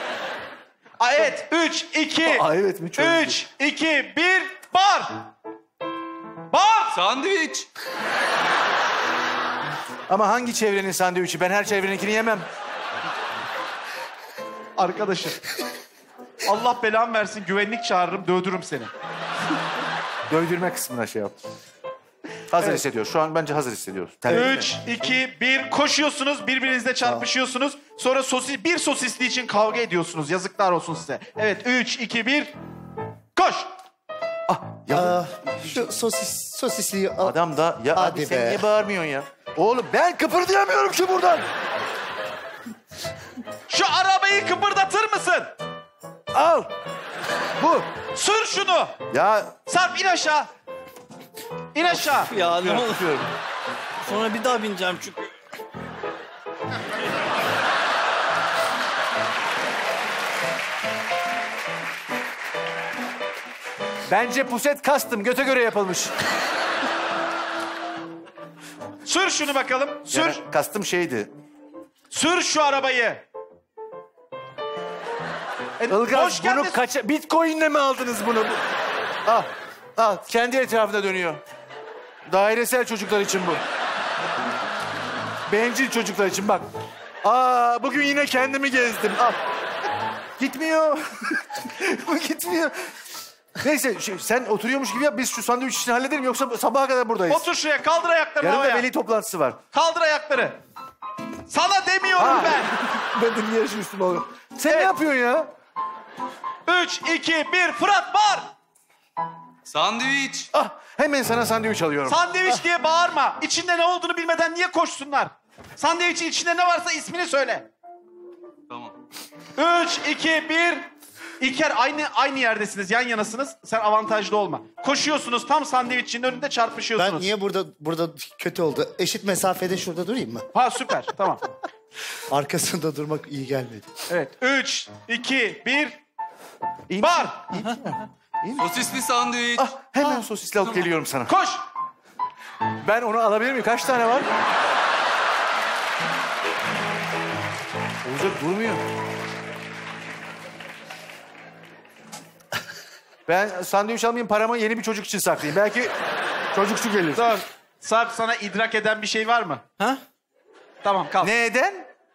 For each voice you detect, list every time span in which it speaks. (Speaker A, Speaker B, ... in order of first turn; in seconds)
Speaker A: 1.0-5.3, 6.5-7.0, 14.8-15.4, 16.4-18.9, 24.3-32.5, 33.4-33.7, 43.7-45.5, 48.1-49.0, 49.7-50.5, 51.7-52.3, 69.0-70.4, 72.1-73.2, 75.8-76.8, 97.3-98.9, 99.7-100.6, 101.5-102.7, 104.7-104.9, 106.7-108.5, 112.1-117.7, 119.6-120.8, 121.4-127.3, 130.5-131.6, 134.1-136.0, 137.0-137.3, 141.3-141.6, 157.2-159.6, 160.8-161.3
Speaker B: 2.2-3.3, 10.1-12.5, 20.3-21.4, 22.5-24.7, 34.5-35.8, 37.2-41.5, 46.3-46.7, 47.6-47.9, 49.1-49.6, 52.4-53.3, 64.1-66.1, 70.1-71.3, 75.9-78.6, 79.2-81.4, 82.3-83.6, 85.5-86.7, 87.2-89.4, 90.4-92.9, 93.6-97.5, 98.4-99.6, 102.2-105.5, 110.5-112.2, 136.9-138.7, 139.6-141.3, 142.8-144.3, 148.0-148.8, 153.3-155.9, 156.5-157.3, 161.2-161.9
Speaker C: 6.9-7.7, 109.7-110.5, 118.7-119.0, 138.6-139.7
Speaker D: 34.9-37.4, 37.9-38.6, 127.0-130.5, 132.3-133.9
Speaker E: 52.3-53.2, 54.0-55.3, 137.5-137.8